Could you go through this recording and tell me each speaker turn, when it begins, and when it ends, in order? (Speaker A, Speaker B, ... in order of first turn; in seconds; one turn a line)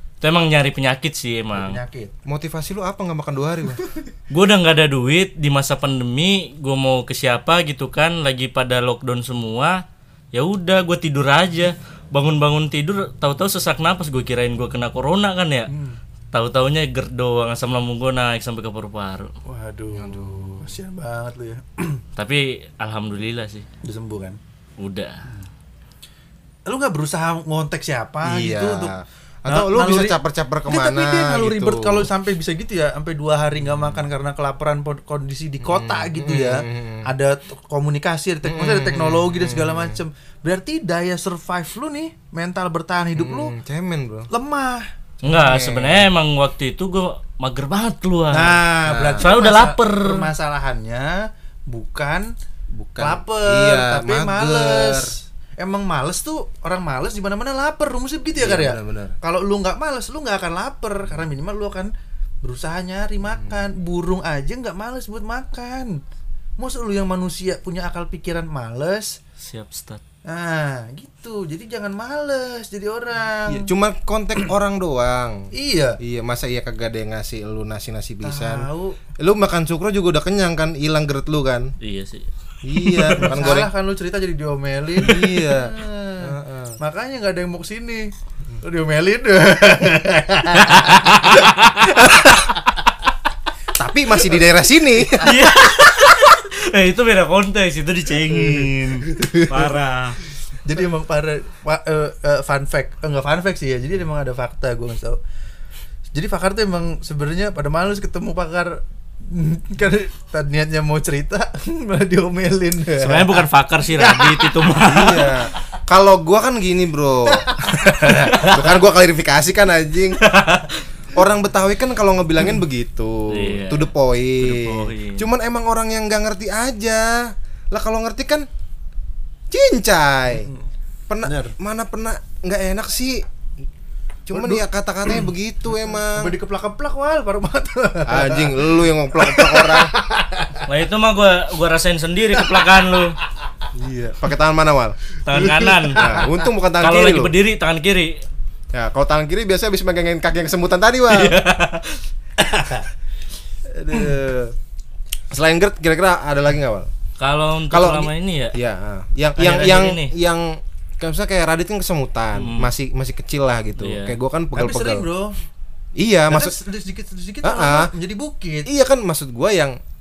Speaker A: 0.2-1.8
Speaker B: 1.5-2.1
Speaker C: 2.2-3.9
Speaker A: 4.3-15.7
Speaker B: 15.7-16.0
Speaker A: 16.3-19.3
Speaker B: 19.4-22.0
Speaker C: 19.9-20.7
Speaker A: 22.1-23.6
Speaker B: 23.8-24.4
Speaker A: 24.8-25.3
Speaker B: 26.6-28.9
Speaker C: 28.2-32.1
Speaker B: 29.5-43.5
Speaker C: 35.6-37.0
Speaker C: 38.4-40.0
Speaker C: 43.1-44.3
Speaker B: 44.3-44.9
Speaker C: 45.2-46.1
Speaker A: 45.2-48.6
Speaker B: 48.3-52.3
Speaker C: 48.8-49.3
Speaker A: 49.2-50.3
Speaker C: 52.7-55.1
Speaker B: 53.0-66.0
Speaker C: 58.4-59.1
Speaker B: 66.6-69.2
Speaker A: 69.4-70.0
Speaker B: 70.2-73.7
Speaker C: 73.5-81.7
Speaker B: 75.5-76.0
Speaker B: 78.2-79.0
Speaker A: 81.8-82.3
Speaker C: 82.6-83.7
Speaker B: 83.1-91.5
Speaker C: 85.0-86.8
Speaker A: 90.6-91.8
Speaker C: 91.9-92.4
Speaker C: 93.8-95.5
Speaker A: 95.2-100.2
Speaker B: 99.1-99.6
Speaker B: 100.6-105.2
Speaker B: 106.1-114.8
Speaker A: 113.0-115.3
Speaker C: 114.8-120.2
Speaker B: 117.3-118.5
Speaker A: 118.2-118.6
Speaker A: 120.2-120.8
Speaker C: 121.1-128.5
Speaker A: 123.3-125.2
Speaker C: 129.5-130.5
Speaker B: 130.4-130.7
Speaker C: 131.1-133.2
Speaker B: 131.2-131.5
Speaker C: 134.3-136.3
Speaker B: 134.3-134.6
Speaker B: 135.9-140.7
Speaker C: 138.1-139.9
Speaker A: 140.7-143.2
Speaker C: 143.7-145.0
Speaker A: 145.2-146.1
Speaker B: 145.3-146.3
Speaker C: 145.9-147.3
Speaker A: 146.8-148.2
Speaker C: 148.7-151.4
Speaker A: 151.1-152.0
Speaker B: 152.4-152.9
Speaker C: 153.7-154.6
Speaker C: 155.3-156.9
Speaker A: 157.2-158.6
Speaker C: 157.7-165.0
Speaker A: 159.4-160.1
Speaker A: 162.3-162.7
Speaker A: 163.8-164.2
Speaker B: 164.5-165.4
Speaker C: 166.0-166.6
Speaker B: 166.3-168.7
Speaker C: 167.4-167.9
Speaker C: 168.7-169.8